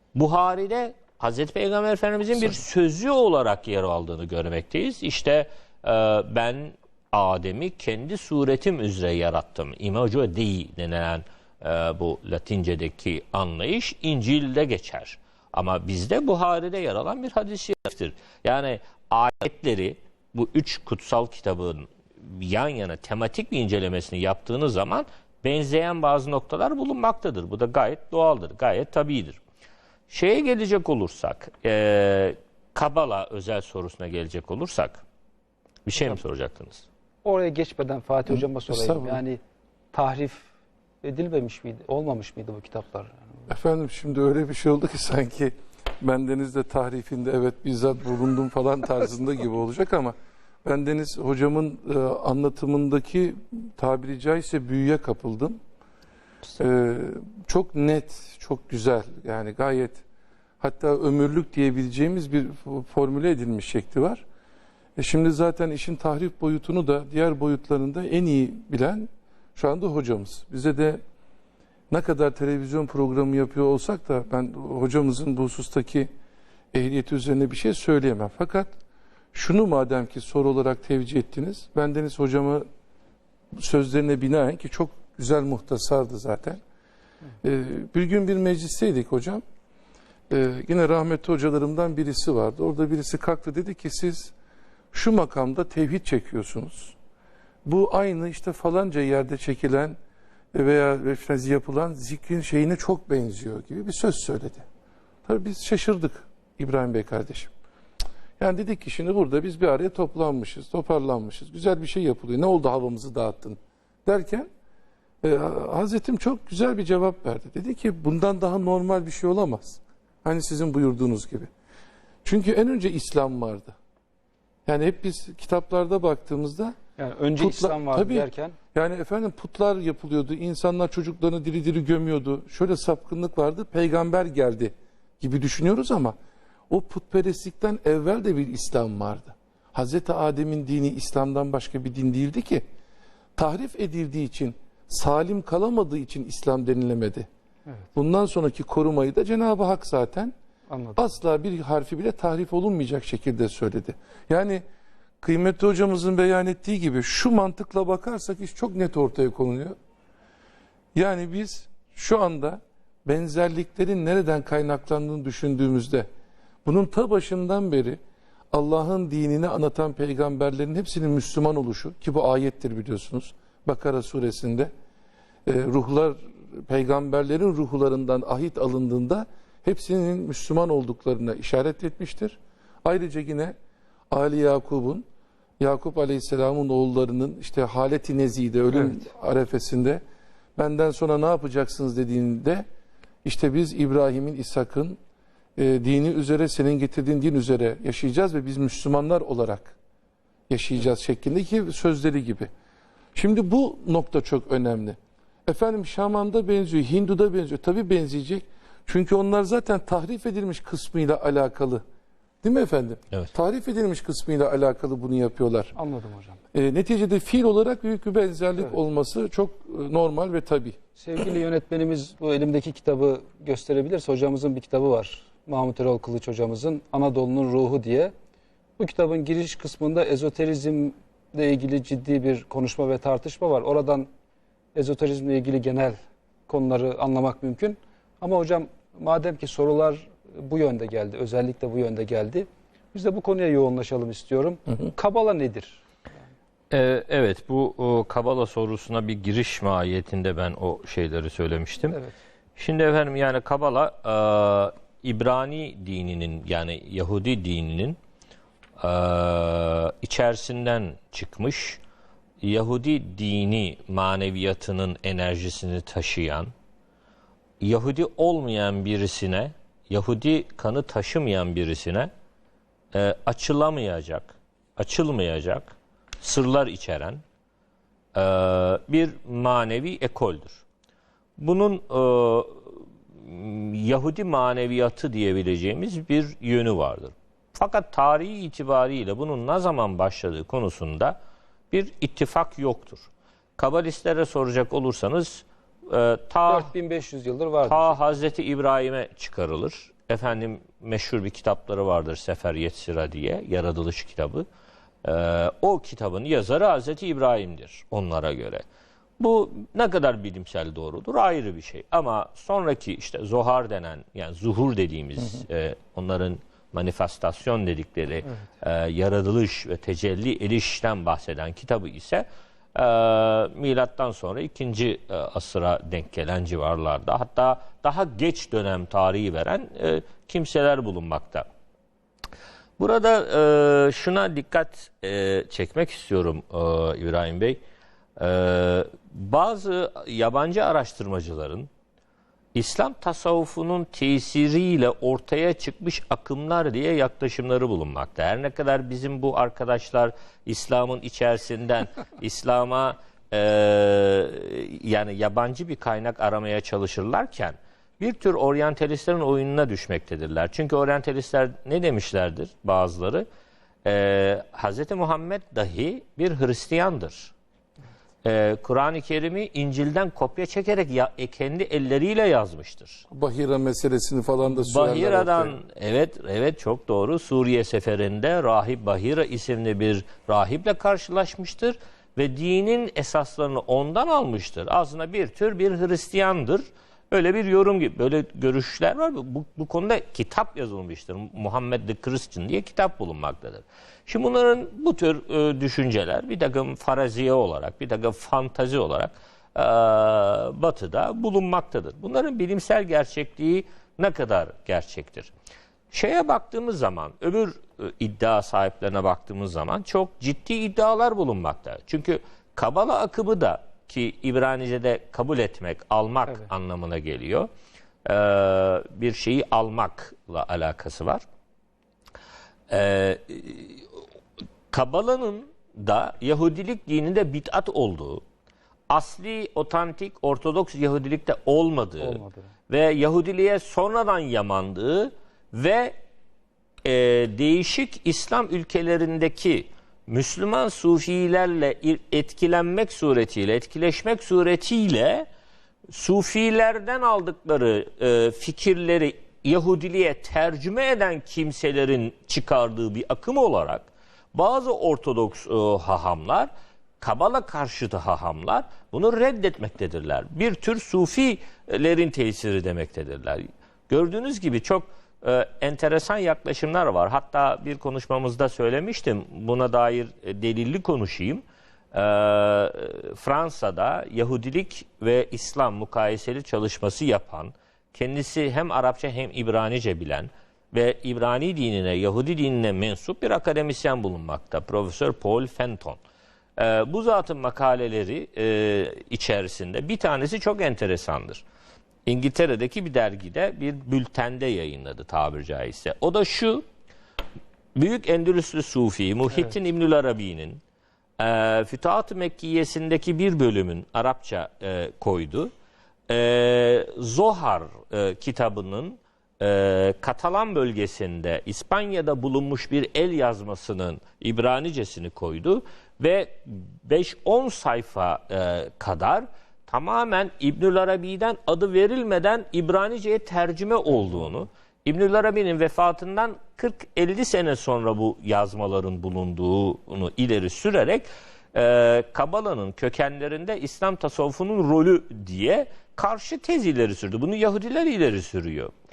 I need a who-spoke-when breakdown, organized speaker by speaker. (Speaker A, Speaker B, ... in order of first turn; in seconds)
Speaker A: 0.1-29.4, 30.1-35.0, 35.9-36.9, 246.7-252.0, 252.6-258.0, 258.8-261.8, 262.4-266.5, 267.6-272.1, 272.9-277.2, 278.1-280.6, 281.4-291.2, 291.7-296.7, 297.6-304.4, 305.0-308.6, 309.2-331.5, 332.8-337.6, 338.2-341.7, 342.6-363.2, 363.9-367.3, 368.2-373.0, 374.5-405.3, 405.9-417.5, 418.1-421.2, 422.7-423.9, 424.7-428.2, 428.9-435.9, 436.9-445.3, 445.9-456.5, 457.0-471.4, 471.9-486.0, 486.6-491.4, 492.1-496.6, 497.8-500.6, 501.2-505.5, 506.1-538.7
Speaker B: 37.2-39.4, 39.9-40.5, 41.0-43.2, 127.0-128.6, 150.7-151.1, 215.8-216.4, 221.0-228.1, 228.8-234.1, 234.8-245.8, 296.5-298.0, 432.0-432.5
Speaker C: 38.3-39.2, 43.5-55.6, 56.6-60.0, 60.6-64.2, 65.0-71.0, 71.9-76.1, 76.7-78.7, 79.3-82.7, 83.6-86.6, 87.4-89.4, 90.3-94.3, 94.9-97.0, 97.7-100.0, 100.5-104.7, 105.3-107.5, 108.4-114.5, 115.2-121.5, 122.2-123.8, 124.7-126.8, 127.4-136.2, 136.7-142.6, 143.4-147.3, 147.9-150.3, 151.0-154.6, 155.2-159.8, 160.9-166.1, 166.7-168.0, 168.5-174.7, 175.5-183.6, 184.1-185.1, 185.6-190.0, 190.6-192.7, 193.2-195.0, 195.6-199.8, 200.5-202.5, 203.2-211.8, 212.4-215.7, 216.5-220.8, 373.1-375.6